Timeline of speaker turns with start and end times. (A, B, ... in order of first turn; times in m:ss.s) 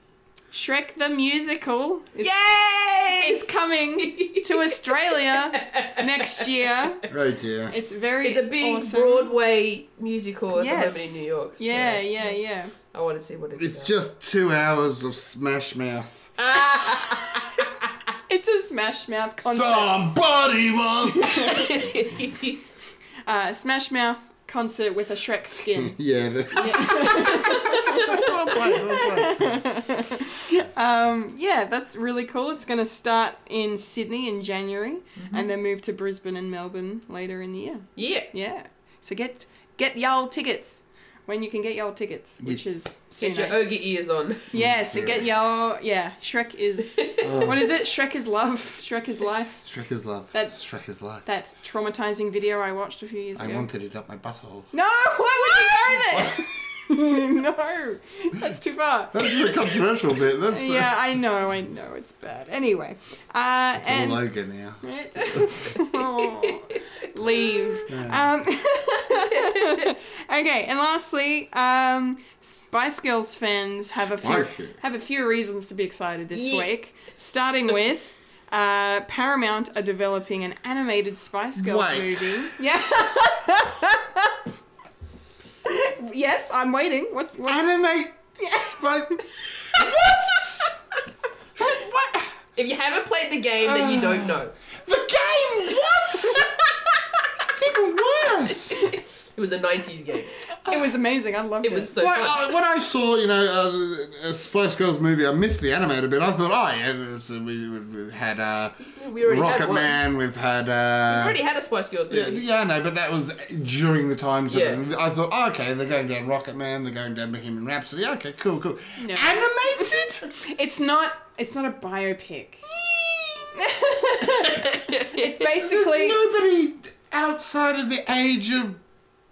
0:00.5-0:02.4 A
0:02.2-0:03.4 B
0:03.0-0:07.0 A
0:04.0-0:06.9 B
0:07.1-0:07.7 C
0:07.7-0:09.3 A
0:08.2-0:13.9 B
0:10.5-0:12.7 A
0:13.6-0:16.3 C
0:16.4-0:17.4 B
0:18.3-0:20.0 A
0:19.4-0:21.7 C
0:21.2-0:21.8 A
0:21.5-0:22.6 B
0:23.2-0:26.0 A
0:25.8-0:29.6 C
0:26.5-0:43.6 A
0:27.3-0:28.0 B
0:35.2-0:35.5 B
0:38.0-0:38.3 B
0:43.2-0:44.5 B
0:44.5-0:49.6 A
0:44.5-0:45.2 C
0:47.2-0:47.6 C
0:49.6-0:51.2 C
0:50.3-0:50.6 A
0:51.2-0:53.7 A
0:53.4-0:54.7 C
0:54.7-0:59.7 A
0:55.7-0:56.5 C
0:59.1-1:00.9 C
1:00.5-1:04.2 A
1:03.8-1:05.5 C
1:04.8-1:24.3 A
1:06.2-1:06.8 B
1:07.9-1:08.2 C
1:09.3-1:09.9 B
1:14.2-1:14.8 C
1:16.3-1:16.7 B
1:21.6-1:22.5 C
1:25.6-1:27.6 A
1:27.5-1:29.2 C
1:28.4-1:28.8 A
1:29.7-1:30.7 C
1:31.6-1:32.3 C
1:32.6-1:34.5 B
1:33.6-1:36.6 C
1:37.4-1:38.8 C
1:39.3-1:40.3 B
1:40.6-1:41.9 A
1:41.6-1:42.5 B
1:42.0-1:51.4 C
1:48.9-1:50.0 B
1:51.1-1:52.4 B
1:52.1-2:00.3 C
1:54.5-1:54.8 B
1:59.0-2:02.6 A
2:02.8-2:03.6 C
2:03.6-2:06.2 A
2:04.6-2:05.3 B
2:05.6-2:08.8 C